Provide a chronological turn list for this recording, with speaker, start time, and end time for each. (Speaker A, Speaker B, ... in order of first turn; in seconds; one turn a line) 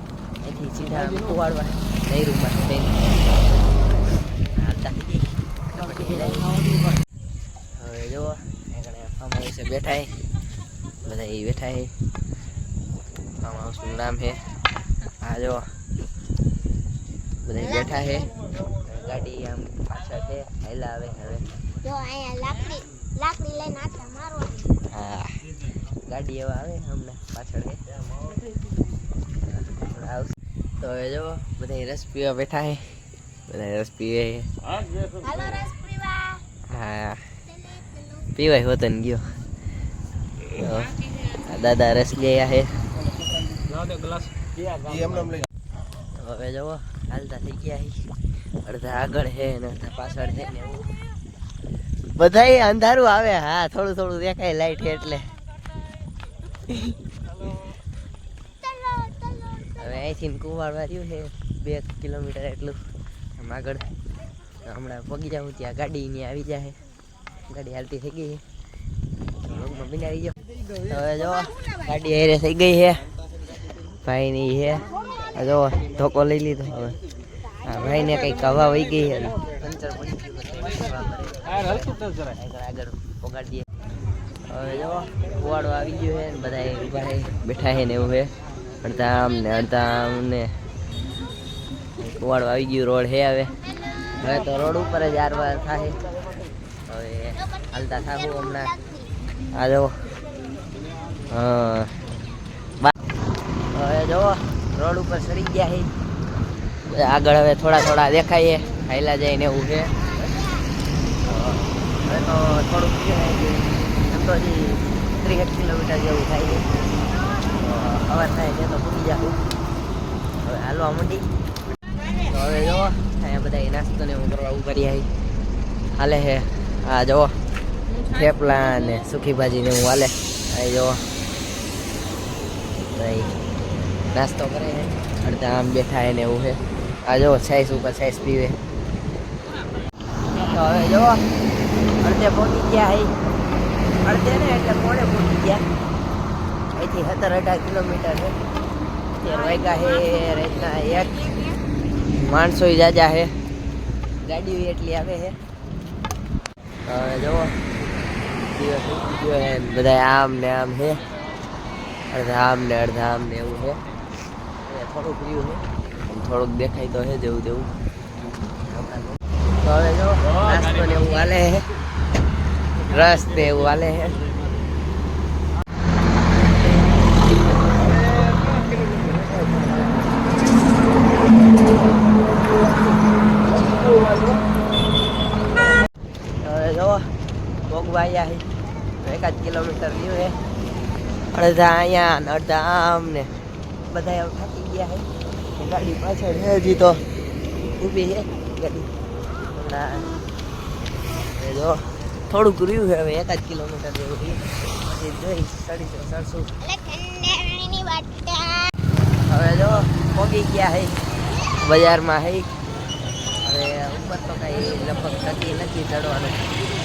Speaker A: 0.4-3.0
Speaker A: 4.5-6.5
Speaker A: 7.8-10.2
Speaker A: 11.0-11.9
Speaker A: 13.4-14.4
Speaker A: 15.2-15.7
Speaker A: 17.4-21.5
Speaker B: 17.6-18.3
Speaker B: 21.8-24.8
Speaker A: 24.9-27.8
Speaker A: 29.5-34.5
Speaker B: 35.0-36.4
Speaker A: 36.7-37.3
Speaker B: 37.7-38.3
Speaker A: 38.3-39.3
Speaker A: 40.5-42.7
Speaker A: 44.9-45.4
Speaker A: 46.1-48.0
Speaker A: 48.6-50.9
Speaker A: 52.1-55.3
Speaker B: 58.6-59.8
Speaker A: 59.7-62.8
Speaker A: 63.4-63.9
Speaker A: 64.6-66.8
Speaker A: 67.5-68.4
Speaker A: 69.4-73.0
Speaker A: 73.9-77.0
Speaker A: 77.6-83.7
Speaker A: 84.5-88.3
Speaker A: 88.8-90.5
Speaker A: 92.0-93.5
Speaker A: 94.2-96.0
Speaker A: 96.9-98.8
Speaker B: 97.4-97.7
Speaker B: 98.5-99.1
Speaker A: 99.5-100.1
Speaker A: 101.3-102.0
Speaker A: 103.7-105.9
Speaker A: 106.8-110.0
Speaker A: 111.2-116.7
Speaker A: 117.5-119.4
Speaker A: 120.4-121.3
Speaker A: 122.3-125.1
Speaker A: 126.0-127.4
Speaker A: 128.0-131.1
Speaker A: 132.9-133.3
Speaker A: 134.1-138.6
Speaker A: 140.4-141.3
Speaker A: 142.0-143.1
Speaker A: 144.0-145.7
Speaker A: 146.8-148.4
Speaker A: 149.2-151.2
Speaker B: 149.2-151.6
Speaker A: 152.1-153.3
Speaker A: 154.2-155.3
Speaker A: 156.8-157.7
Speaker A: 158.5-161.0
Speaker A: 162.1-163.8
Speaker A: 164.6-167.7
Speaker A: 168.6-171.7
Speaker A: 172.8-174.2
Speaker A: 177.6-177.8
Speaker A: 178.8-180.2
Speaker A: 186.4-187.1
Speaker A: 187.7-188.4
Speaker A: 189.0-190.4
Speaker A: 191.3-193.3
Speaker A: 193.9-195.1
Speaker A: 195.6-197.0
Speaker A: 197.8-198.9
Speaker A: 199.4-200.1
Speaker A: 201.3-206.5
Speaker B: 206.6-208.7
Speaker A: 209.2-210.9
Speaker A: 211.6-212.5
Speaker A: 213.4-216.5